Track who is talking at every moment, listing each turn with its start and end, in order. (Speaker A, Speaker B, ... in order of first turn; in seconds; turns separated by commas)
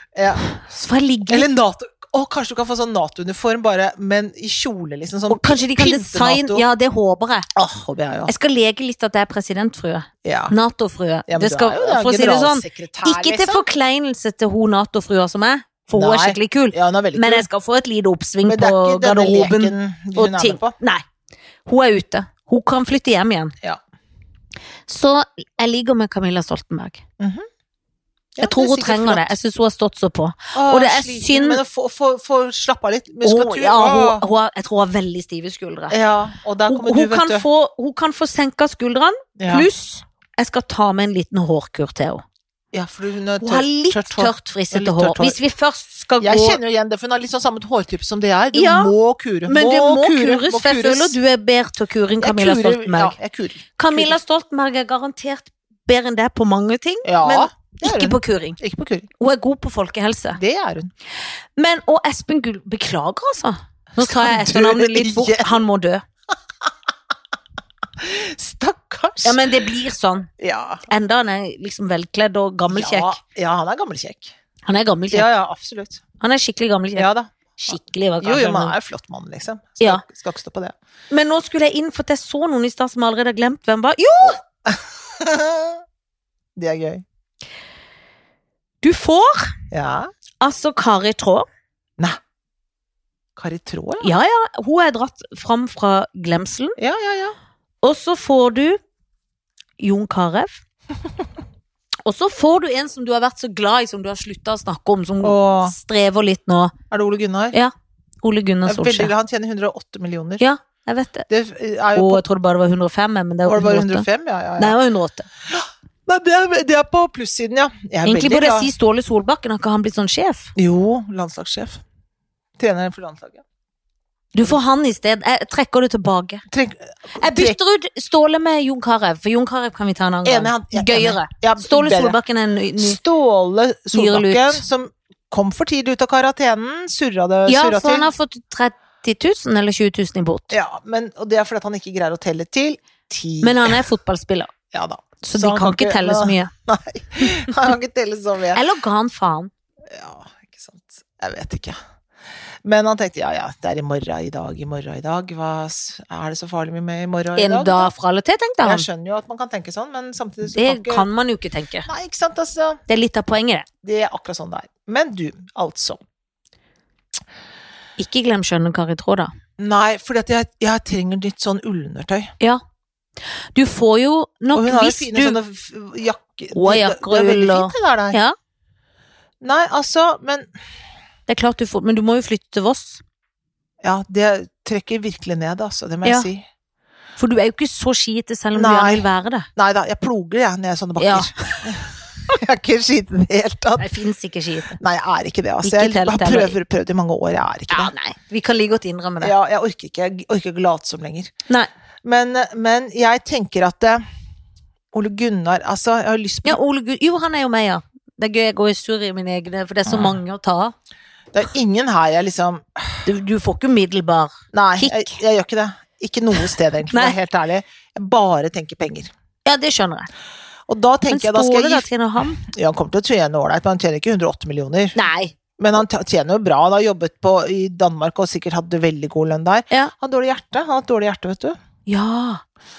Speaker A: 0.1-0.4, Speaker B: 0.5-1.5, Speaker A: 1.3-6.6, Speaker B: 5.3-7.5, Speaker A: 7.5-8.3, Speaker B: 8.3-21.0, Speaker A: 10.2-10.6, Speaker A: 11.3-13.7, Speaker A: 15.9-17.5, Speaker A: 18.4-20.8, Speaker B: 21.7-23.5, Speaker B: 24.9-27.0, Speaker A: 27.2-27.5, Speaker A: 28.4-29.4, Speaker B: 28.4-31.6, Speaker A: 30.5-34.2, Speaker B: 33.2-36.0, Speaker A: 35.9-37.5, Speaker B: 36.7-42.2, Speaker A: 39.4-39.7, Speaker A: 42.7-45.4, Speaker B: 43.4-46.6, Speaker A: 46.2-51.2, Speaker B: 48.5-48.9, Speaker B: 49.5-53.2, Speaker A: 52.2-54.2, Speaker B: 53.8-58.6, Speaker A: 57.0-59.1, Speaker B: 59.2-60.4, Speaker A: 60.4-60.9, Speaker B: 61.6-66.0, Speaker A: 64.0-65.6, Speaker A: 68.0-69.4, Speaker B: 69.2-70.3, Speaker A: 70.4-70.8, Speaker B: 70.9-73.2, Speaker A: 72.7-74.3, Speaker B: 74.7-75.3, Speaker A: 75.1-76.0, Speaker B: 76.2-77.1, Speaker A: 77.0-80.8, Speaker B: 77.6-78.7, Speaker B: 81.1-84.4, Speaker A: 84.2-85.8, Speaker A: 86.6-87.0, Speaker B: 88.8-89.6, Speaker A: 89.7-90.1, Speaker B: 90.4-91.5, Speaker A: 93.4-94.1, Speaker B: 94.0-96.8, Speaker A: 96.8-97.4, Speaker B: 97.8-98.8, Speaker B: 99.8-100.6, Speaker B: 102.0-106.7, Speaker A: 105.2-105.8, Speaker A: 106.9-107.6, Speaker B: 107.5-109.1, Speaker A: 108.7-110.4, Speaker B: 110.4-111.3, Speaker A: 111.3-112.2, Speaker B: 112.0-114.1, Speaker A: 113.5-114.8, Speaker B: 114.6-115.3, Speaker A: 115.5-118.7, Speaker B: 118.0-120.5, Speaker A: 120.6-121.8, Speaker A: 122.6-123.4, Speaker B: 124.3-126.5, Speaker A: 126.5-127.6, Speaker B: 127.2-133.0, Speaker A: 130.2-132.2, Speaker A: 132.8-138.1, Speaker B: 133.9-134.6, Speaker B: 137.5-140.6, Speaker A: 140.5-143.8, Speaker B: 143.4-144.5, Speaker A: 144.7-148.6, Speaker B: 145.2-146.5, Speaker B: 148.5-149.5, Speaker A: 149.9-151.8, Speaker A: 152.6-157.9, Speaker B: 157.4-158.9, Speaker A: 158.6-161.1, Speaker B: 160.5-161.9, Speaker A: 161.9-162.8, Speaker B: 162.9-163.7, Speaker A: 163.8-166.0, Speaker B: 168.0-169.3, Speaker A: 169.6-172.3, Speaker B: 173.6-175.4, Speaker A: 174.5-178.2, Speaker B: 176.5-178.3, Speaker A: 179.4-180.5, Speaker B: 181.3-183.0, Speaker A: 183.8-186.4, Speaker B: 187.2-189.5, Speaker A: 188.5-193.9, Speaker B: 191.0-191.7, Speaker B: 193.8-194.8, Speaker A: 194.8-197.9, Speaker B: 195.6-196.6, Speaker B: 197.7-199.3, Speaker A: 199.2-201.3, Speaker A: 202.0-204.0, Speaker A: 204.9-206.6, Speaker B: 206.4-210.8, Speaker A: 209.9-210.2, Speaker A: 211.3-213.0, Speaker B: 213.1-215.2, Speaker A: 214.5-219.1, Speaker B: 216.9-217.2, Speaker B: 219.4-220.1, Speaker A: 220.7-221.9, Speaker B: 221.1-222.4, Speaker A: 222.4-225.0, Speaker B: 224.9-225.3, Speaker A: 225.6-231.6, Speaker B: 231.9-232.4